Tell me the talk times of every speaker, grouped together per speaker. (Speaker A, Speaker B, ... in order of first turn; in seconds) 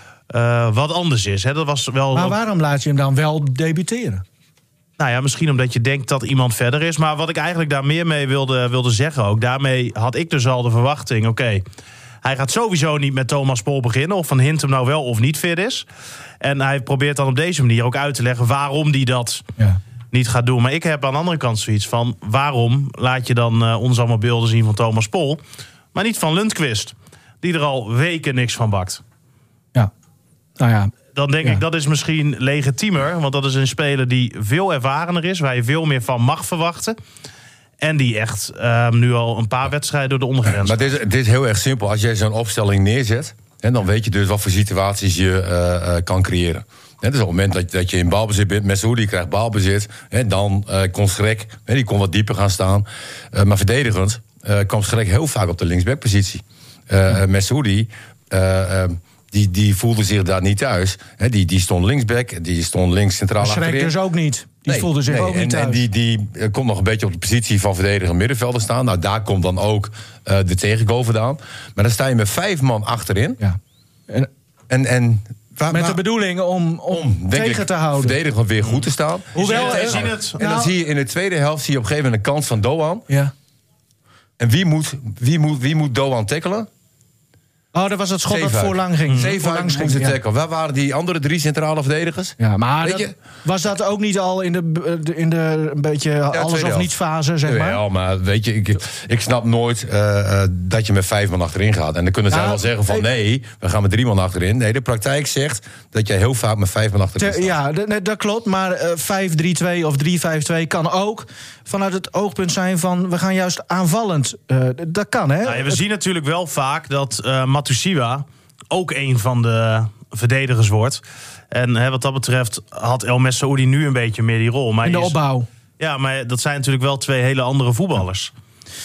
Speaker A: 0.3-2.4, 5.0-11.6, 12.2-15.8, 16.4-19.4, 20.1-25.4, 25.9-29.0, 31.1-37.0, 37.8-40.9, 78.6-80.4, 115.4-125.2, 125.8-128.3
Speaker B: 2.1-4.2, 30.6-30.9, 63.4-65.8, 75.7-78.2, 79.3-80.7, 87.7-90.2, 92.4-97.8, 102.3-103.0, 107.2-115.8, 124.8-125.5
Speaker C: 40.5-64.0, 64.7-73.4, 74.7-76.0, 76.9-83.1, 84.4-86.7, 88.3-93.1, 96.3-96.9, 97.4-107.5